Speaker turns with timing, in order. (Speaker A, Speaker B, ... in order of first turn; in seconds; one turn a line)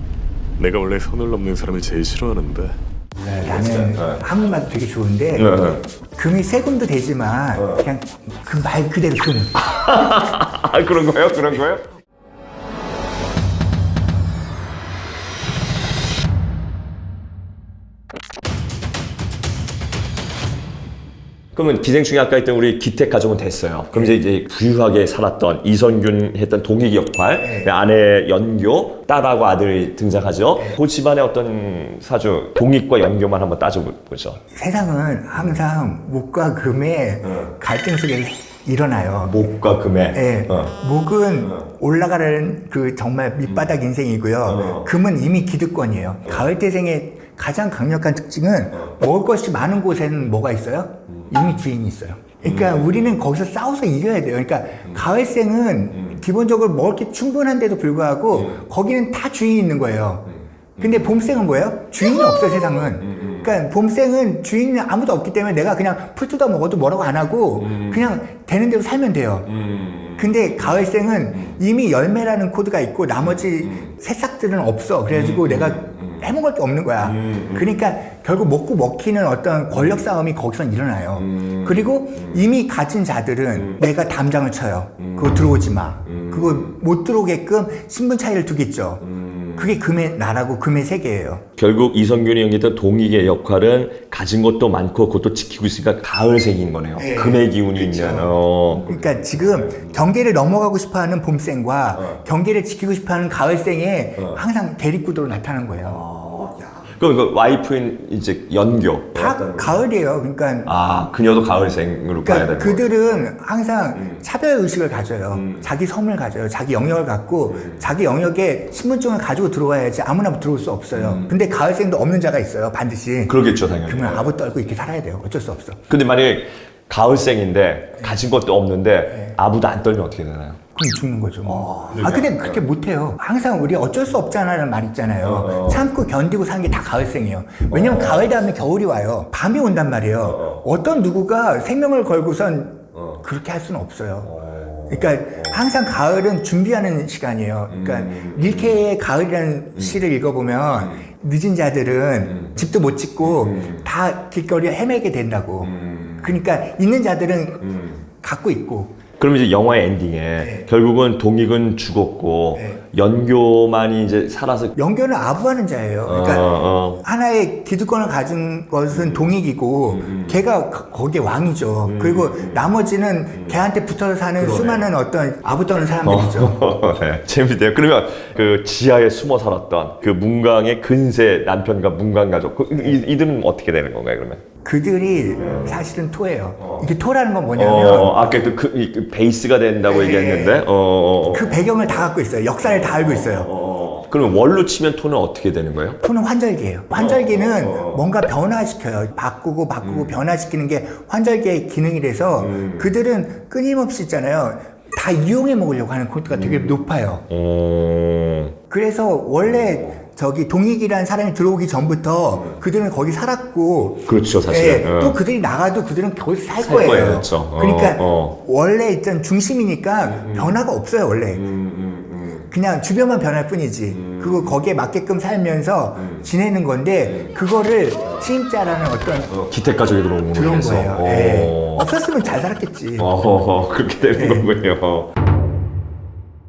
Speaker A: 0.6-2.8
Speaker B: 3.2-9.6
Speaker C: 3.4-4.2
Speaker C: 5.3-5.8
Speaker C: 7.6-7.8
Speaker C: 9.6-11.8
Speaker C: 21.5-34.4
Speaker B: 27.4-27.7
Speaker B: 34.5-39.5
Speaker C: 39.3-40.7
Speaker B: 40.1-69.5
Speaker C: 43.5-43.7
Speaker C: 44.5-44.9
Speaker C: 52.4-53.2
Speaker C: 58.3-58.6
Speaker C: 60.8-61.1
Speaker C: 63.0-63.5
Speaker C: 67.6-68.0
Speaker C: 69.5-70.7
Speaker B: 70.2-91.4
Speaker C: 73.2-73.9
Speaker C: 75.1-76.2
Speaker C: 77.0-77.7
Speaker C: 81.2-82.2
Speaker C: 85.0-85.5
Speaker C: 86.0-86.7
Speaker C: 89.0-89.7
Speaker C: 91.6-100.0
Speaker B: 97.0-106.0
Speaker C: 101.9-102.2
Speaker C: 105.8-109.8
Speaker B: 109.1-110.7
Speaker C: 110.6-112.9
Speaker B: 112.2-125.8
Speaker C: 115.3-115.7
Speaker C: 120.9-121.3
Speaker C: 123.2-124.3
Speaker C: 125.9-130.6
Speaker B: 130.7-144.3
Speaker C: 131.4-132.6
Speaker C: 135.2-135.8
Speaker C: 137.7-138.3
Speaker C: 140.2-140.6
Speaker C: 142.9-143.2
Speaker C: 144.2-145.5
Speaker B: 144.9-159.0
Speaker C: 147.7-148.8
Speaker C: 153.2-153.8
Speaker C: 155.6-156.4
Speaker C: 157.6-158.0
Speaker C: 159.2-164.7
Speaker B: 160.4-160.7
Speaker B: 162.6-162.8
Speaker B: 164.7-176.8
Speaker C: 166.1-167.0
Speaker C: 168.9-169.3
Speaker C: 169.9-170.4
Speaker C: 171.8-172.7
Speaker C: 174.4-174.9
Speaker C: 176.0-184.4
Speaker B: 184.6-188.2
Speaker C: 185.4-185.8
Speaker C: 186.6-186.9
Speaker C: 187.5-191.9
Speaker B: 189.9-190.6
Speaker B: 191.2-193.5
Speaker C: 192.6-196.0
Speaker B: 196.0-207.2
Speaker C: 196.9-198.1
Speaker C: 199.8-200.2
Speaker C: 202.4-202.9
Speaker C: 206.3-208.6
Speaker B: 208.7-221.5
Speaker C: 209.4-210.0
Speaker C: 212.3-212.6
Speaker C: 214.0-215.2
Speaker C: 216.6-218.4
Speaker C: 220.0-220.6
Speaker C: 221.3-222.5
Speaker B: 222.5-229.3
Speaker C: 223.9-224.6
Speaker C: 226.0-226.2
Speaker C: 227.1-227.3
Speaker C: 229.3-231.9
Speaker B: 230.3-233.2
Speaker C: 233.0-235.1
Speaker B: 234.1-234.5